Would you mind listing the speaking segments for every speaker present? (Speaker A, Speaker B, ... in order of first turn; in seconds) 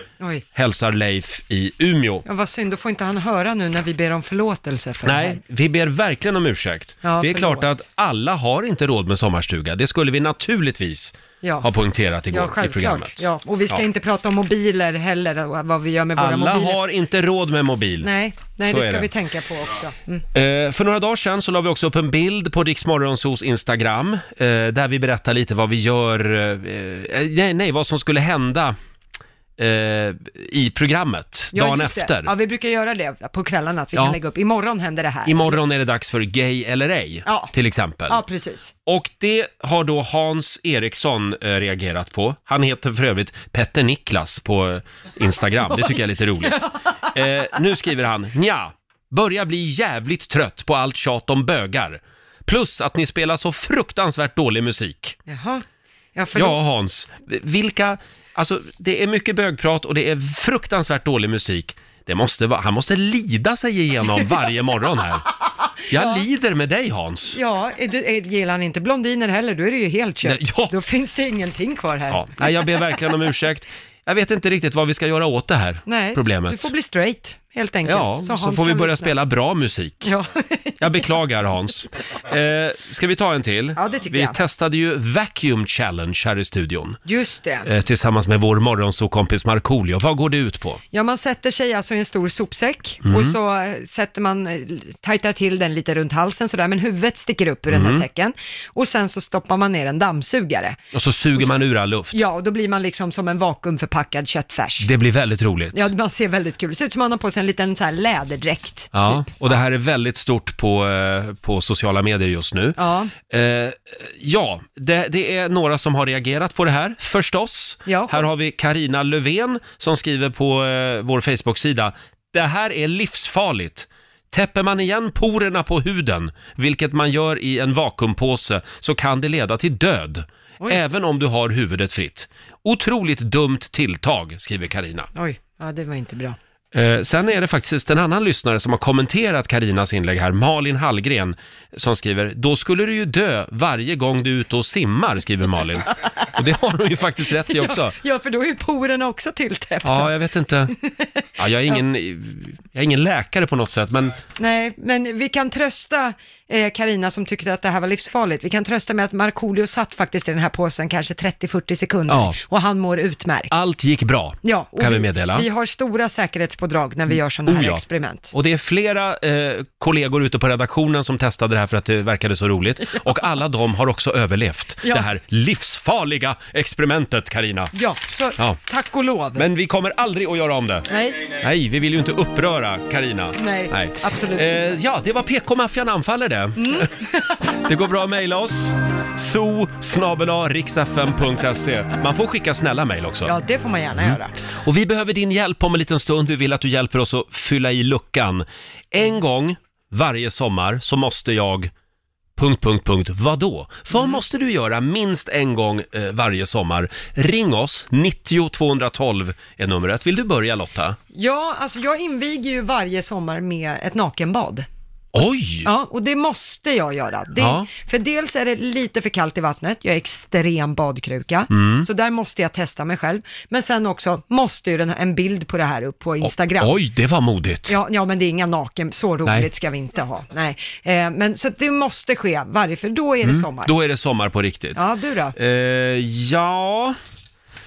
Speaker A: 0.2-0.5, 2.3-5.4, 7.0-7.7, 11.4-11.7, 12.3-16.8, 18.0-20.2, 31.5-35.6, 37.2-37.5, 38.1-38.7, 45.7-46.8, 55.3-55.6, 56.1-56.6, 65.9-66.2, 67.3-72.6, 75.9-79.2, 80.0-81.1, 83.8-84.4, 87.1-87.7, 90.9-100.8, 102.1-104.9, 105.7-109.3, 112.8-113.1, 117.9-118.3, 135.2-136.4, 147.5-150.1, 150.7-151.8, 154.4-163.5, 164.4-168.3, 177.8-179.5, 180.9-181.3, 183.4-184.8, 186.6-187.4, 193.2-194.3, 203.9-204.2, 211.1-214.7, 215.7-226.8, 227.7-233.7, 234.8-235.4
Speaker B: 0.6-2.2, 5.0-13.8, 16.2-18.1, 18.7-19.1, 20.3-28.8, 29.6-32.3, 35.3-38.2, 38.9-55.2, 56.4-65.2, 65.9-67.4, 70.2-70.8, 72.1-76.7, 77.8-80.1, 80.8-87.0, 87.7-90.8, 93.0-93.4, 97.7-98.0, 100.9-102.2, 104.8-105.9, 108.9-135.1, 136.7-148.0, 149.8-150.7, 151.4-154.2, 162.1-162.4, 163.5-165.5, 167.1-177.7, 179.4-186.9, 187.6-193.3, 194.0-201.7, 202.4-211.0, 215.1-215.7, 217.4-217.7, 221.5-221.9, 226.2-227.8, 233.2-234.8, 235.4-237.0